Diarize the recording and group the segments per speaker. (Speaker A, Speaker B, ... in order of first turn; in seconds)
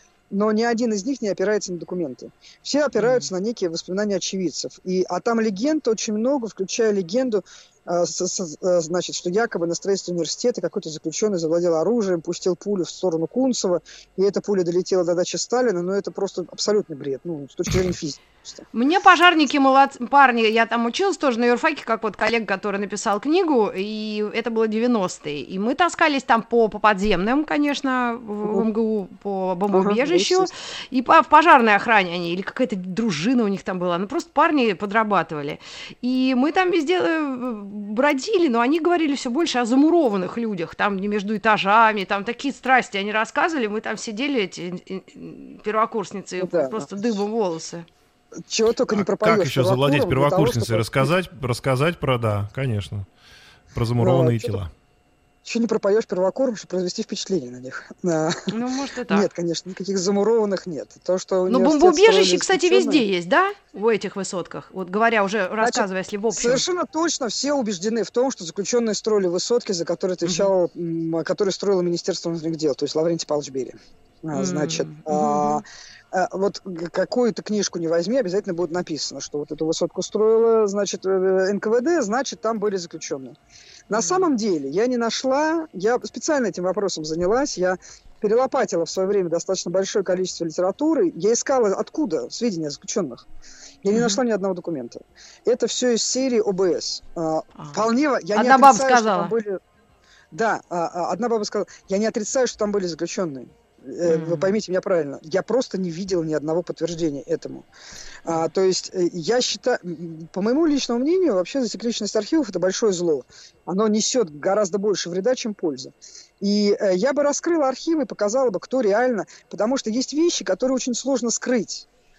Speaker A: 0.3-18.6, 29.7-30.5, 46.4-46.9, 48.4-51.1, 54.0-54.6, 55.4-58.5, 59.1-63.0, 65.6-83.3, 83.9-93.2, 93.8-99.6, 100.3-107.7, 108.2-121.9
Speaker B: 3.0-3.3, 18.7-47.9, 58.5-59.3, 61.5-66.6, 70.2-70.5, 74.3-75.6, 83.9-84.3, 93.9-94.2, 97.6-97.8, 98.3-99.3, 104.0-104.5
Speaker C: 48.9-53.0, 53.7-54.7